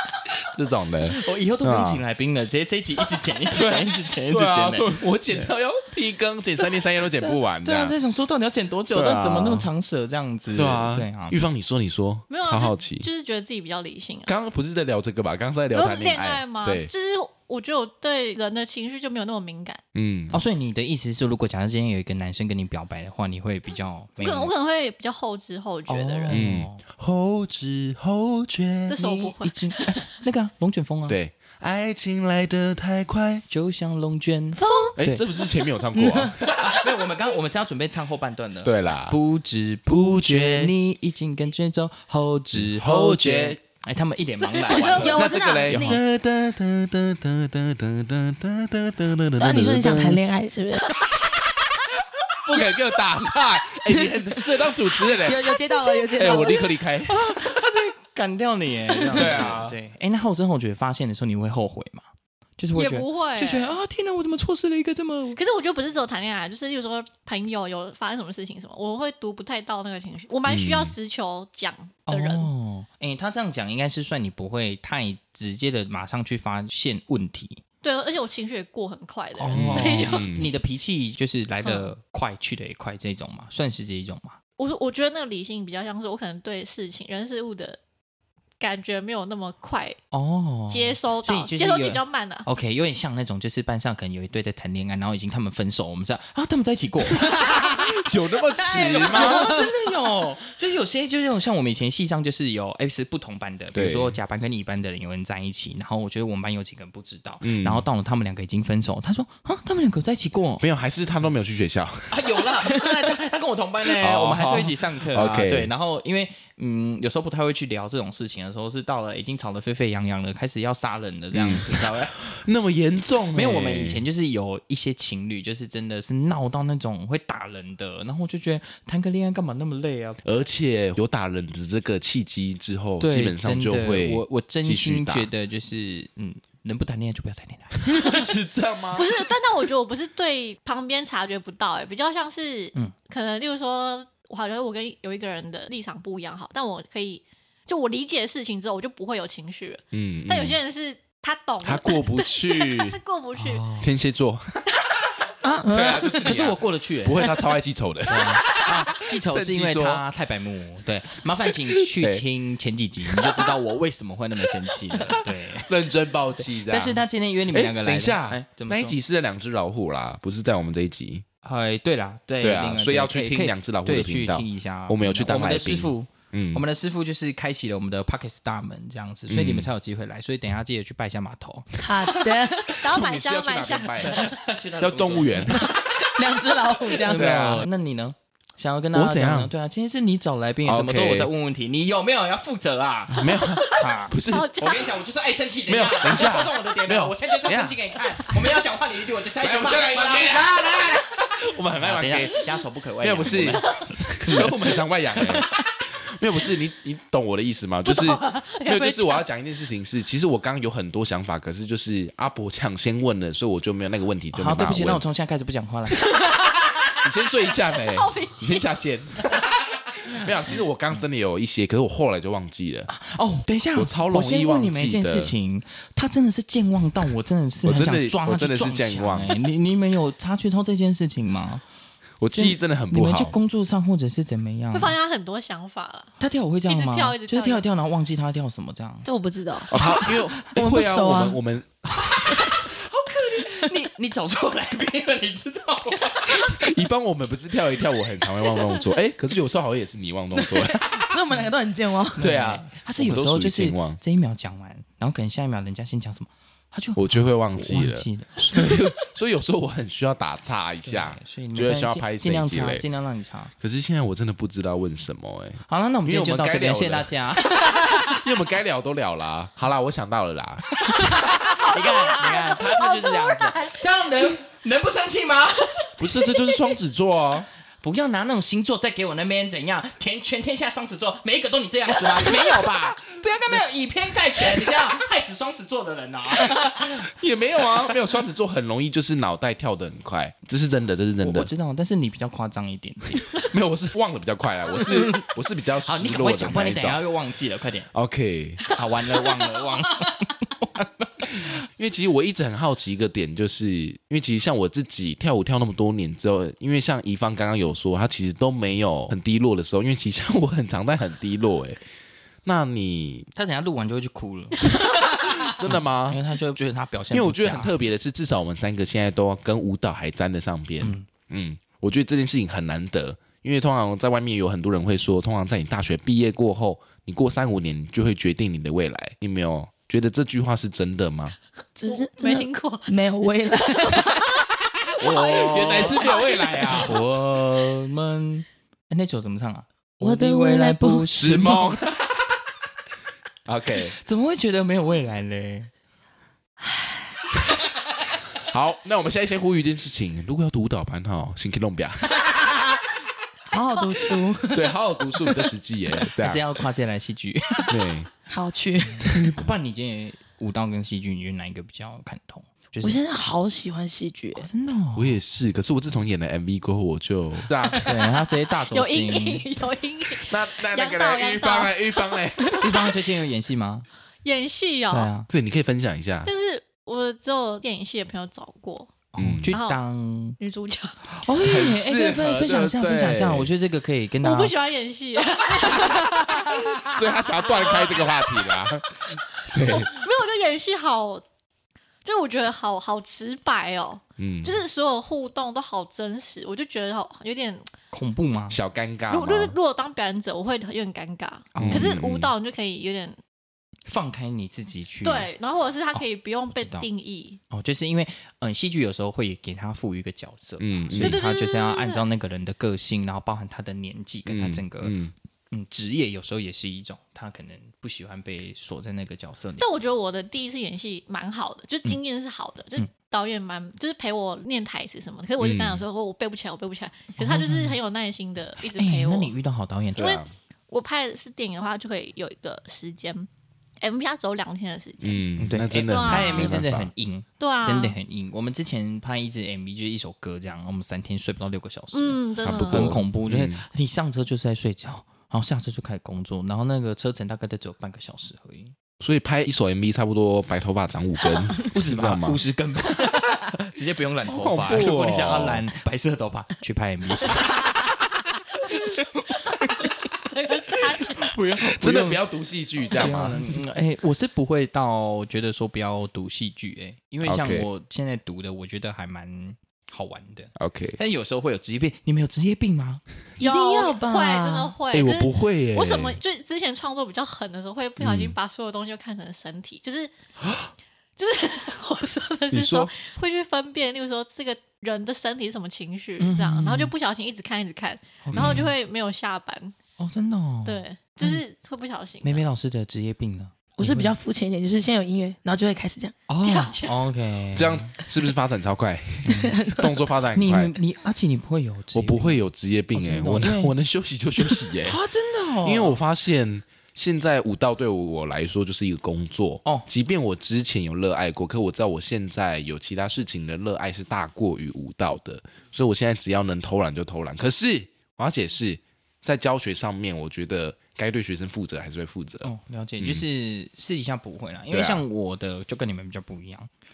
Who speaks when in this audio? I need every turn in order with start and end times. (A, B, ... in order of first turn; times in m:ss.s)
0:00.4-0:02.0 A
0:01.1-0:05.0 B
0:03.5-0:08.0 A
0:07.6-0:11.4 B
0:08.9-0:09.7 A
0:10.5-0:13.1 A
0:12.3-0:14.3 C
0:14.2-0:16.9 A
0:15.7-0:19.8 C
0:19.9-0:20.4 A
0:20.3-0:24.5 B
0:24.2-0:26.4 C
0:25.9-0:26.8 B
0:26.3-0:29.0 A
0:28.9-0:30.0 C
0:29.0-0:31.2 B
0:31.1-0:33.4 A
0:33.5-0:35.2 B
0:34.6-0:35.0 D
0:34.9-0:36.4 A
0:35.9-0:36.3 D
0:36.4-0:45.9 B
0:38.6-0:39.2 A
0:39.9-0:40.7 A
0:42.5-0:43.6 A
0:44.5-0:45.6 C
0:45.0-0:46.0 D
0:45.0-0:50.2 A
0:49.4-0:51.0 D
0:52.3-0:57.3 A
0:55.0-0:56.7 D
0:57.1-1:02.1 B
0:59.1-0:59.8 A
0:59.2-0:59.4 D
1:02.6-1:05.4 B
1:02.7-1:03.7 C
1:05.3-1:12.5 C
1:10.5-1:10.9 A
1:12.1-1:17.6 B
1:17.8-1:20.3 C
1:19.4-1:24.4 B
1:19.5-1:20.5 A
1:21.6-1:21.9 C
1:24.6-1:27.8 C
1:28.6-1:30.0 C
1:30.1-1:37.9 B
1:30.7-1:32.4 C
1:37.2-1:39.7 A
1:38.6-1:50.6 B
1:43.7-1:44.2 A
1:47.4-1:47.8 A
1:50.6-1:53.0 A
1:52.1-2:02.2 B
1:54.0-1:55.7 A
2:01.3-2:04.0 A
2:03.3-2:10.4 B
2:10.2-2:15.3 A
2:13.0-2:18.3 B
2:17.8-2:19.1 A
2:18.9-2:33.7 C
2:29.9-2:30.6 A
2:31.6-2:33.0 A
2:33.4-2:33.9 B
2:33.8-2:34.6 A
2:35.4-2:36.3 D
2:35.7-2:40.0 A
2:36.2-2:37.4 B
2:38.1-2:45.7 B
2:41.4-2:42.2 A
2:43.1-2:43.5 A
2:45.5-2:51.2 A
2:46.5-2:48.9 B
2:51.4-3:01.7 B
2:52.4-2:56.6 A
2:59.3-2:59.7 A
3:01.8-3:02.8 D
3:02.6-3:04.2 C
3:02.8-3:05.7 A
3:04.0-3:05.7 B
3:05.6-3:07.6 D
3:07.0-3:20.5 B
3:07.1-3:07.7 A
3:08.9-3:09.5 A
3:10.6-3:11.3 A
3:13.1-3:14.8 A
3:13.8-3:15.0 C
3:15.7-3:18.4 A
3:19.4-3:22.4 A
3:21.7-3:25.4 B
3:23.0-3:25.5 A
3:26.0-3:35.0 A
3:27.8-3:29.2 C
3:34.3-3:36.0 B
3:36.2-3:37.1 C
3:37.0-3:42.9 A
3:37.7-3:38.7 C
3:42.9-3:51.6 B
3:43.7-3:45.3 A
3:47.6-3:49.4 A
3:52.2-3:53.3 A
3:52.3-3:54.9 B
3:54.7-3:56.1 C
3:56.2-3:59.1 B
3:56.7-3:57.6 C
3:59.0-4:01.4 D
3:59.7-4:01.7 A
4:01.9-4:06.6 B
4:06.2-4:11.1 A
4:10.3-4:12.3 D
4:12.2-4:18.7 B
4:12.2-4:14.0 A
4:17.0-4:22.8 A
4:20.8-4:23.5 B
4:23.6-4:30.6 A
4:25.7-4:27.8 B
4:30.8-4:36.0 B
4:31.4-4:33.8 C
4:36.0-4:37.5 A
4:37.8-4:47.0 B
4:46.4-4:51.5 A
4:51.2-4:53.2 B
4:53.2-4:57.0 A
4:55.8-4:57.9 B
4:57.9-4:58.7 A
4:58.7-5:01.5 B
5:01.2-5:11.8 A
5:12.4-5:13.3 A
5:13.3-5:14.7 B
5:14.9-5:16.2 A
5:15.6-5:17.7 B
5:17.1-5:31.4 A
5:20.8-5:21.1 B
5:31.8-5:34.4 D
5:31.8-5:33.0 C
5:33.8-5:34.3 C
5:35.0-5:37.0 A
5:35.0-5:36.9 C
5:35.1-5:36.0 B
5:36.7-5:41.7 B
5:40.0-5:41.3 D
5:41.1-5:42.3 A
5:43.4-5:43.9 A
5:44.0-5:45.7 B
5:48.3-5:52.2 A
5:53.5-5:54.7 D
5:54.4-5:56.6 A
5:56.2-5:57.8 B
5:57.7-5:58.1 A
5:58.3-5:59.3 D
5:59.0-6:03.0 B
5:59.0-5:59.4 A
6:02.8-6:04.5 D
6:04.3-6:05.2 B
6:04.9-6:08.0 A
6:07.8-6:09.5 B
6:08.7-6:12.9 C
6:10.2-6:12.7 A
6:12.6-6:13.8 B
6:14.2-6:15.1 C
6:14.9-6:15.3 B
6:15.3-6:16.3 A
6:16.2-6:18.9 C
6:19.1-6:20.4 B
6:19.2-6:19.5 A
6:19.5-6:19.8 C
6:20.4-6:21.0 C
6:21.0-6:24.5 B
6:21.4-6:23.5 A
6:24.2-6:28.7 C
6:26.7-6:29.9 A
6:29.6-6:31.2 C
6:32.0-6:37.7 C
6:34.2-6:34.6 A
6:37.9-6:38.6 B
6:38.5-6:39.6 A
6:39.1-6:43.2 C
6:41.5-6:41.9 B
6:41.6-6:42.3 A
6:43.9-6:45.3 B
6:45.0-6:47.4 C
6:45.9-6:46.9 B
6:47.5-6:54.9 B
6:50.6-6:51.2 A
6:51.0-6:52.0 C
6:54.3-6:55.1 A
6:55.5-6:59.7 B
6:59.6-7:09.3 C
7:05.4-7:05.8 A
7:07.2-7:07.8 B
7:08.7-7:10.2 B
7:10.0-7:13.3 C
7:10.0-7:10.3 A
7:13.8-7:16.6 C
7:15.0-7:16.9 A
7:15.4-7:28.7 B
7:17.4-7:18.0 C
7:21.9-7:23.0 C
7:22.4-7:23.6 A
7:29.0-7:32.4 A
7:31.6-7:37.5 B
7:34.3-7:35.6 A
7:38.9-7:39.9 B
7:40.3-7:41.3 C
7:41.2-7:42.2 B
7:41.5-7:43.6 A
7:42.9-7:53.0 B
7:47.2-7:47.7 A
7:50.6-7:51.0 A
7:53.4-7:54.7 D
7:53.4-8:00.1 C
7:54.9-7:56.2 A
7:58.0-7:58.4 A
8:00.4-8:00.7 A
8:01.2-8:09.8 C
8:02.5-8:02.9 A
8:06.2-8:06.9 B
8:08.2-8:08.7 B
8:08.3-8:08.7 A
8:10.0-8:11.4 B
8:10.6-8:12.4 C
8:12.2-8:14.2 B
8:13.8-8:16.1 D
8:16.3-8:18.0 B
8:16.4-8:17.0 C
8:17.5-8:20.7 A
8:19.2-8:19.5 B
8:19.4-8:20.0 D
8:20.3-8:22.4 B
8:21.9-8:25.0 A
8:22.9-8:23.7 B
8:24.4-8:26.0 B
8:25.6-8:42.5 A
8:42.4-8:46.7 B
8:43.0-8:43.2 A
8:44.7-8:45.0 A